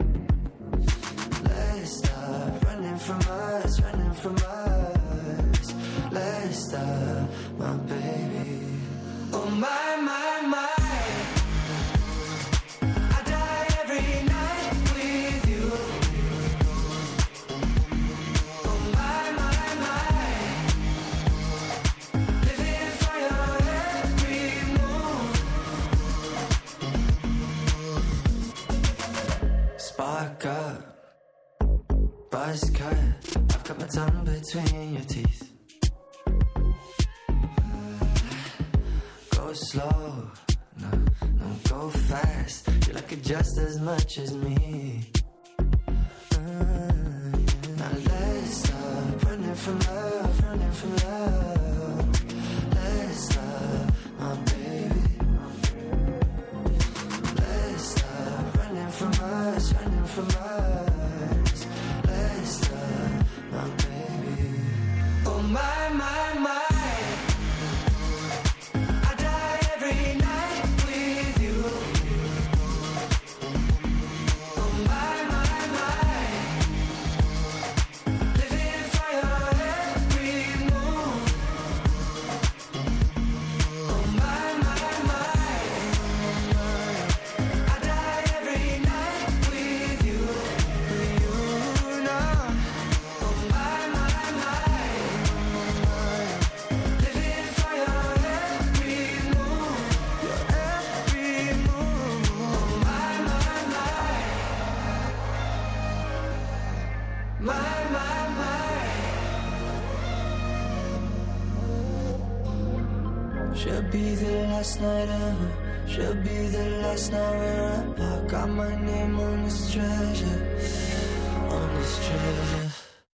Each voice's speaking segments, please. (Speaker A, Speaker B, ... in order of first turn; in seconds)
Speaker A: 1.4-11.1, 13.3-16.0, 18.8-19.8, 22.6-25.2, 29.8-30.9, 32.3-35.5, 39.3-45.1, 46.3-55.2, 57.3-67.0, 69.1-71.8, 74.8-76.2, 78.6-81.1, 84.1-85.6, 87.8-90.4, 91.0-92.6, 93.4-95.0, 97.5-99.8, 100.6-102.8, 113.5-120.5, 121.5-122.7